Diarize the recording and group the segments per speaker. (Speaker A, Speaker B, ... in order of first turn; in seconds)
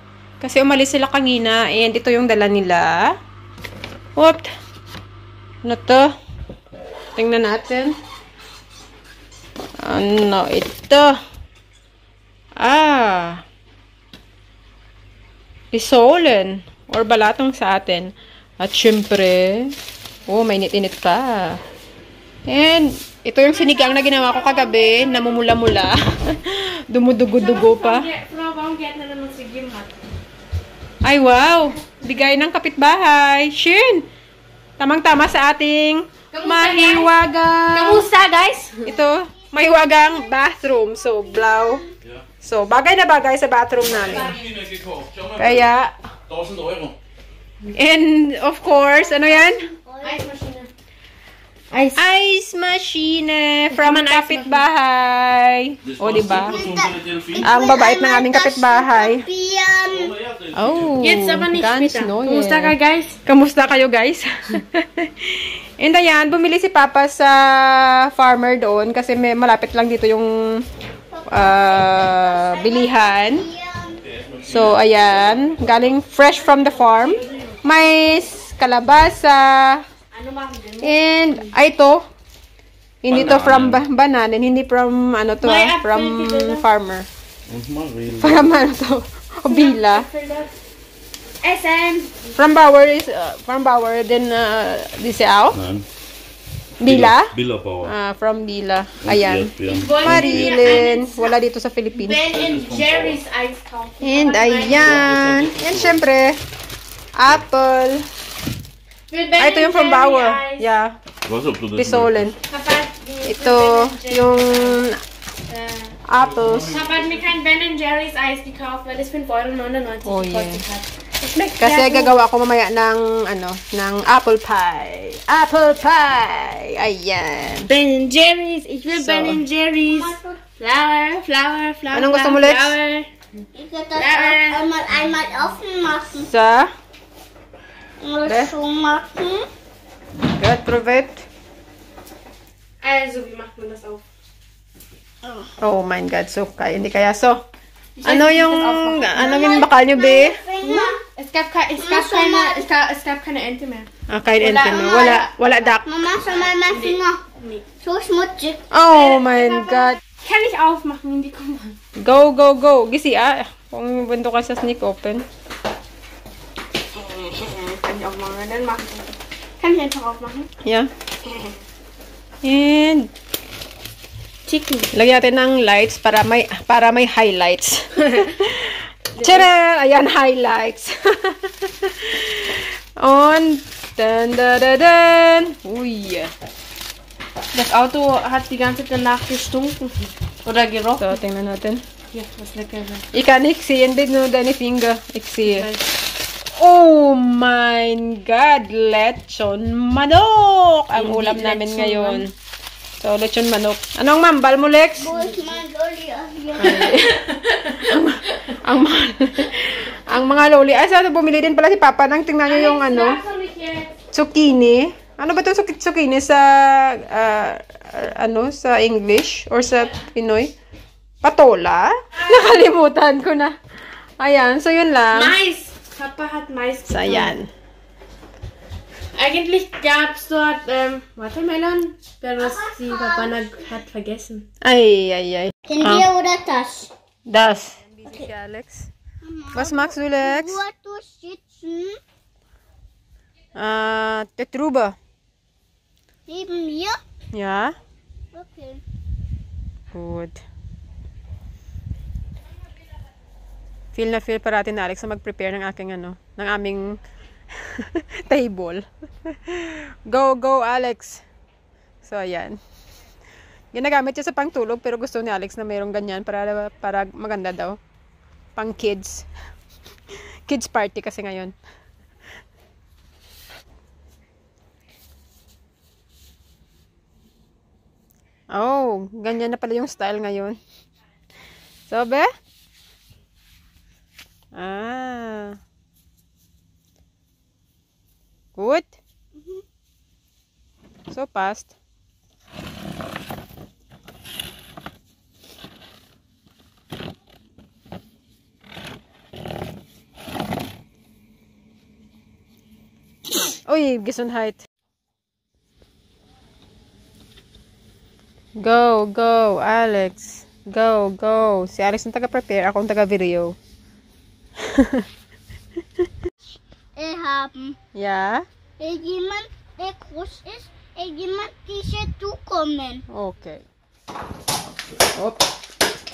Speaker A: 0.4-3.1, 4.2-4.5, 5.6-6.1, 7.2-7.9, 9.8-11.2, 12.6-13.4, 15.7-19.7, 20.3-21.6, 22.4-28.1, 31.0-34.0, 34.8-38.1, 38.8-41.8, 42.4-44.3, 45.4-45.9, 47.7-49.7, 52.0-56.6, 57.4-59.2, 60.5-70.6, 71.3-73.5, 74.4-79.8, 80.8-82.1, 83.0-87.1, 88.2-90.1, 92.3-95.6, 96.8-102.2, 104.0-106.4, 107.2-108.0, 109.4-111.0, 111.7-112.3, 113.2-115.0, 116.0-116.7, 120.0-120.6, 121.6-127.7, 128.9-129.4, 131.9-132.8, 136.2-136.7, 138.2-138.5, 140.4-141.2, 145.6-147.4, 148.0-150.4, 154.1-155.9, 158.7-160.0, 162.0-165.2, 170.6-170.9, 172.4-173.1, 174.9-186.3, 191.0-191.8, 193.1-195.7, 196.5-202.3, 203.0-205.1, 206.6-213.2, 214.1-220.5, 221.2-223.6, 224.2-225.3, 226.9-227.5, 234.6-236.1, 237.3-238.9, 239.5-240.6, 243.6-244.9, 247.3-247.8, 249.9-250.4, 253.9-257.0, 257.6-261.2, 262.0-262.6, 263.7-267.8, 268.6-269.3, 270.5-271.5, 278.5-280.6, 281.9-282.3, 284.5-285.6, 288.6-289.0, 291.1-291.7, 303.6-304.6, 308.6-313.5, 314.7-315.1, 317.9-318.4, 323.1-323.6, 325.1-325.4
Speaker B: 23.4-25.6, 27.2-30.0, 36.3-37.2, 37.7-38.9, 44.1-44.5, 50.0-50.7, 51.7-52.0, 53.7-54.6, 61.0-63.2, 76.3-77.6, 80.1-81.5, 85.4-86.6, 89.5-90.5, 91.4-92.3, 99.6-101.4, 101.9-105.1, 109.1-110.7, 112.5-114.8, 115.5-115.9, 116.7-122.2, 127.7-133.1, 133.9-134.7, 142.8-144.0, 148.0-149.5, 150.6-157.7, 158.9-161.7, 166.9-170.5, 171.2-171.5, 174.4-174.9, 187.5-191.2, 192.1-193.0, 195.4-195.8, 200.9-202.3, 205.1-205.6, 207.1-207.8, 212.4-213.9, 222.2-222.4, 225.1-227.3, 229.1-234.4
Speaker C: 39.9-41.9, 49.1-50.3, 56.3-60.1, 71.1-74.0, 129.8-130.4, 133.5-136.3, 138.0-139.5, 149.1-151.0, 151.8-152.7, 154.8-155.2, 155.8-157.2, 157.8-158.6, 205.0-207.0, 232.4-233.4, 235.7-236.9, 239.2-242.0, 246.3-247.0, 248.3-248.8, 316.9-317.7, 318.8-323.0
Speaker D: 43.8-45.7, 46.3-47.0, 55.8-57.5, 59.8-61.1, 74.0-75.7, 83.0-83.8, 87.5-88.5, 95.5-95.8, 96.8-97.9, 99.0-100.9, 102.2-103.2, 104.6-106.0, 111.2-112.3, 116.2-117.2